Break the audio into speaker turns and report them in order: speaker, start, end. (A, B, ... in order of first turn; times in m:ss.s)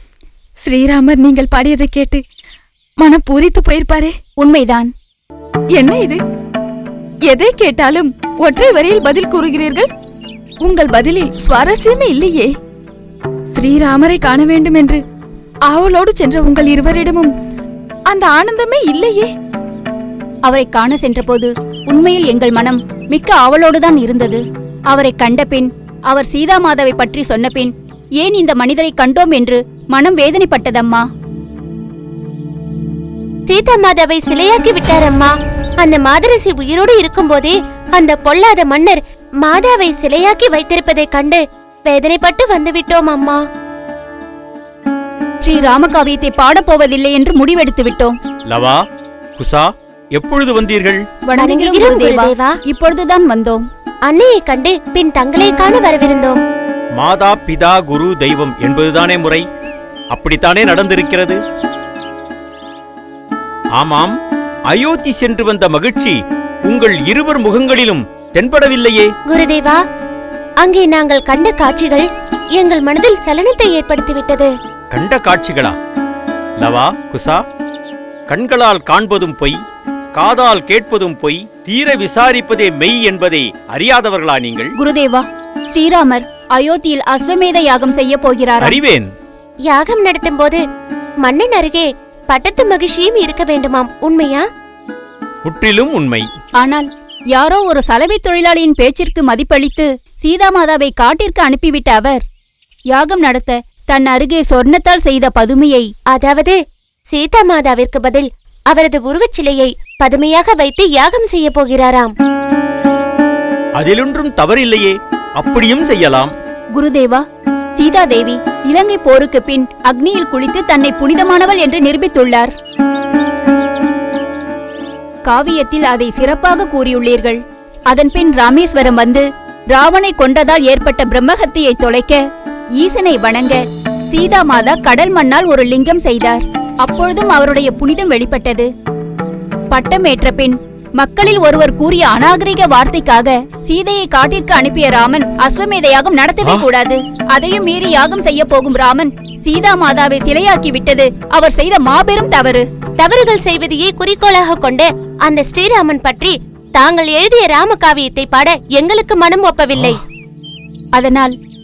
0:00.6-0:02.2 A
0:03.0-0:04.2 A
0:04.4-0:04.9 B
0:05.8-0:06.2 A
0:07.3-0:09.9 A
0:10.6-0:12.5 A
0:13.5-0:15.0 A
0:15.7-0:17.3 A
0:18.1-0:19.3 A
0:20.5-0:31.1 B
0:33.5-0:43.4 C
0:45.4-0:48.2 B
0:48.5-0:48.8 D
0:49.4-0:51.0 D
0:51.3-0:53.6 B
0:51.4-0:52.5 C
0:54.1-0:56.4 C
0:57.0-0:59.4 D
1:00.1-1:01.4 D
1:03.8-1:04.1 D
1:04.7-1:09.1 D
1:09.3-1:09.8 C
1:10.6-1:12.0 C
1:12.6-1:14.5 C
1:14.9-1:15.8 D
1:16.6-1:17.4 D
1:18.3-1:19.6 D
1:20.2-1:24.7 D
1:24.8-1:28.7 B
1:28.6-1:29.1 D
1:29.7-1:30.6 C
1:31.2-1:34.4 C
1:35.4-1:36.3 D
1:36.6-1:42.2 B
1:42.9-1:45.9 B
1:46.1-1:46.6 C
1:47.1-1:52.1 C
1:53.8-1:56.3 D
1:56.8-1:57.2 B
1:57.8-2:02.5 B
2:05.3-2:12.2 B
2:12.8-2:18.7 B
2:19.7-2:32.6 B
2:33.0-2:40.0 C
2:41.0-2:41.3 B